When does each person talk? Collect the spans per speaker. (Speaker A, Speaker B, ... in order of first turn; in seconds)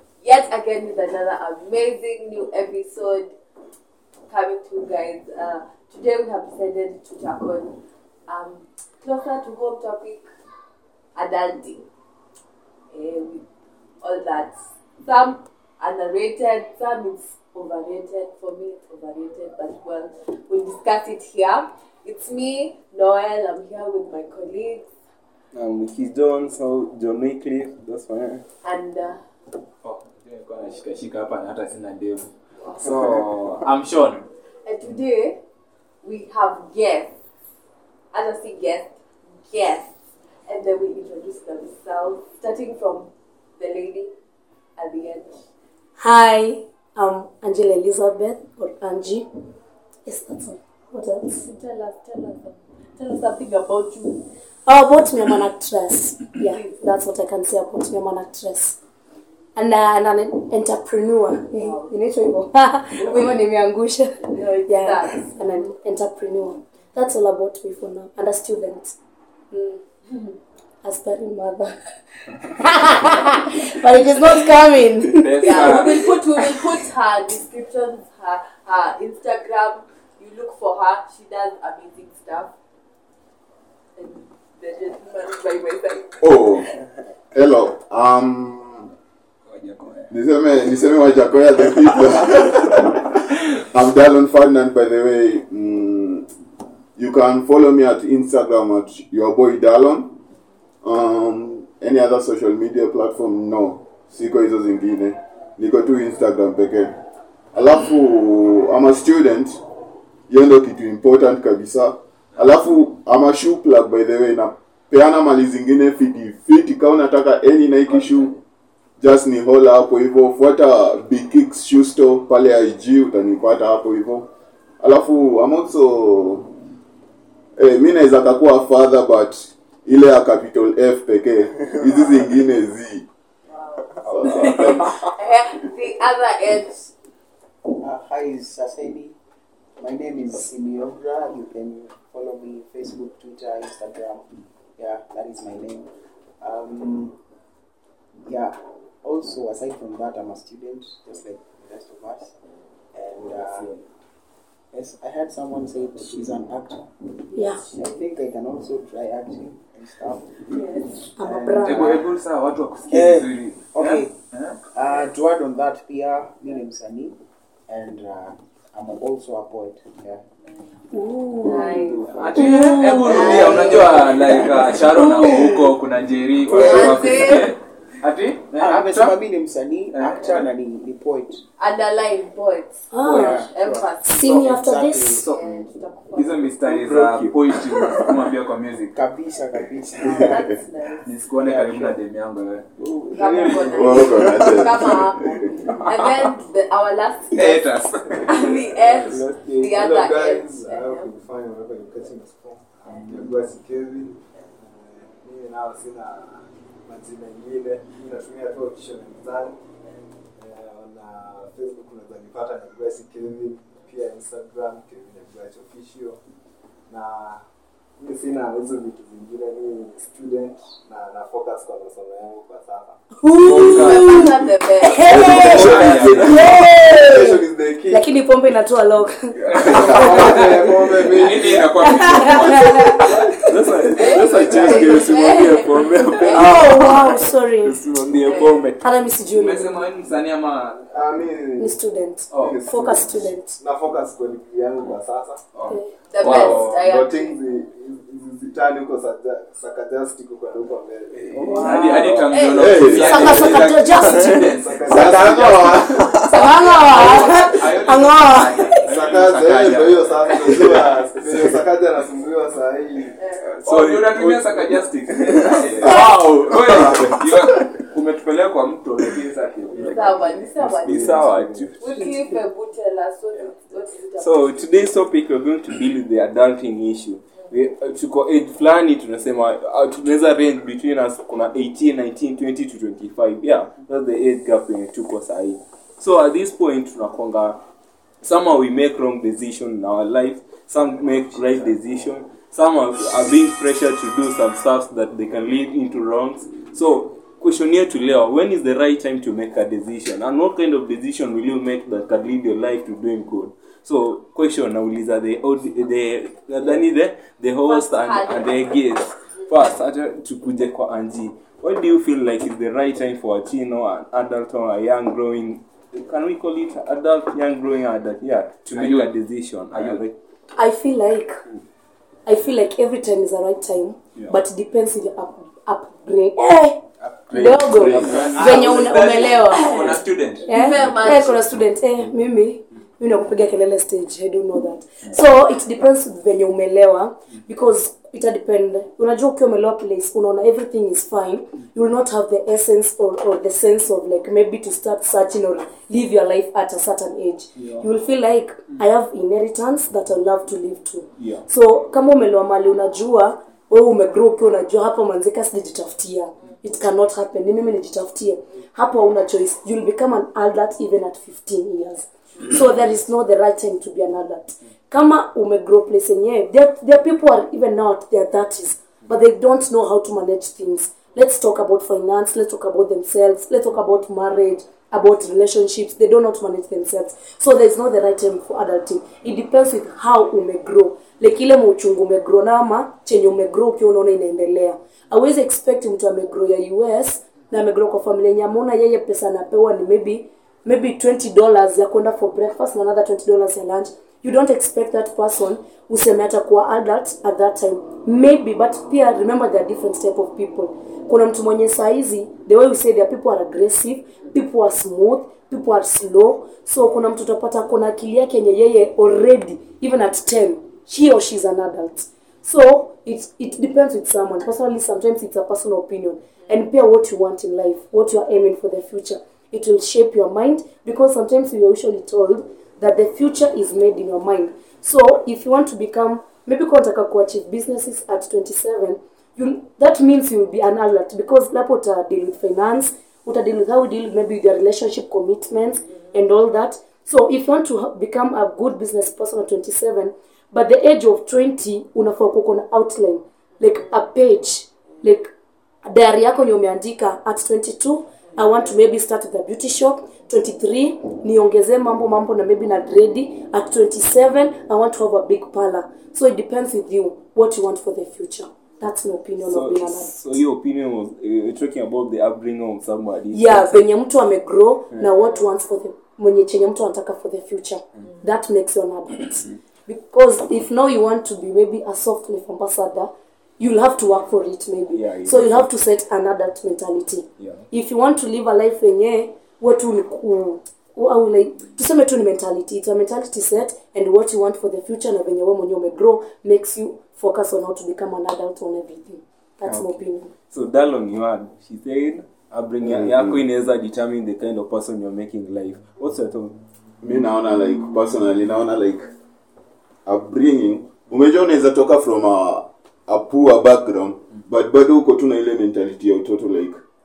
Speaker A: 0.2-3.3, 4.3-7.7, 8.3-10.2, 11.2-11.8, 12.9-13.4, 14.0-24.9, 28.6-29.2, 34.6-35.4, 36.0-37.1, 38.1-38.9, 39.5-39.9, 40.5-44.1, 44.8-45.4, 51.2-54.2, 61.5-61.9, 63.0-63.3, 64.3-65.7, 70.1-70.3, 75.4-82.5, 84.0-86.2, 133.5-136.9, 160.5-160.9, 171.4-174.6, 176.5-177.5, 181.6-184.7, 185.2-186.5, 190.1-191.1, 193.1-201.1, 223.5-226.2, 233.9-236.7, 238.2-238.7, 245.7-247.4, 252.2-253.7, 256.2-257.6, 263.2-263.4, 269.8-274.6, 307.6-309.0, 328.4-329.8, 330.4-331.4, 448.4-448.7, 465.1-465.4
Speaker B: 25.5-28.4, 32.8-33.6, 75.4-75.9, 89.6-90.1, 134.2-134.9, 172.5-173.3, 176.7-177.3, 186.7-188.1, 192.8-194.7, 195.7-196.1, 199.0-199.8, 223.4-224.3, 225.2-226.4, 229.4-230.7, 233.4-238.8, 245.6-246.8, 251.1-252.5, 255.9-256.3, 263.4-264.6, 265.1-267.7, 269.7-270.1, 270.8-272.1, 274.2-287.6, 288.2-320.1, 327.3-328.9, 347.6-347.9, 351.2-351.4, 459.4-463.7, 474.9-475.7, 489.6-496.6
Speaker C: 29.8-34.2, 75.2-76.1, 117.9-118.4, 161.6-164.6, 172.0-179.1, 179.9-180.4, 186.1-188.9, 191.0-192.7, 197.3-198.6, 225.3-226.4, 229.6-233.2, 239.3-241.0, 242.3-242.6, 251.6-260.9, 263.6-270.1, 318.7-319.1, 319.7-320.0, 327.3-330.8
Speaker D: 46.0-49.3, 50.0-51.4, 54.7-58.8, 59.5-68.9, 69.5-69.8, 70.8-71.7, 72.3-75.8, 157.3-157.6, 161.2-162.0, 170.9-171.8, 172.3-175.7, 182.9-183.4, 184.0-185.2, 223.2-230.3, 231.8-233.3, 236.0-237.8, 238.8-239.8, 241.6-243.6, 251.4-252.1, 252.9-254.5, 256.1-258.8, 320.6-321.4, 322.2-445.3, 445.8-460.2, 463.3-490.3
Speaker E: 86.2-86.7, 87.3-88.9, 90.1-96.3, 97.0-100.2, 100.8-106.9, 107.5-109.6, 110.3-118.3, 119.0-124.3, 124.8-126.5, 127.6-133.1, 134.0-134.9, 193.6-195.4, 225.1-226.5, 252.5-253.5, 254.9-256.0, 492.8-493.5, 497.0-499.1, 500.1-506.8
Speaker F: 137.8-139.2, 139.8-144.2, 144.8-145.9, 146.4-147.2, 148.2-152.3, 152.9-153.8, 154.7-162.1, 162.9-164.1, 164.7-167.2, 167.7-170.2, 171.8-172.3, 178.6-181.4, 183.0-185.3, 188.9-190.6, 191.4-191.9
Speaker G: 199.7-209.6, 210.4-216.2, 216.9-217.4, 218.0-223.0, 226.1-226.4, 226.9-228.1, 229.6-231.7, 240.9-241.8, 242.3-245.5, 246.3-251.4, 253.8-256.1, 258.8-263.1, 270.6-271.7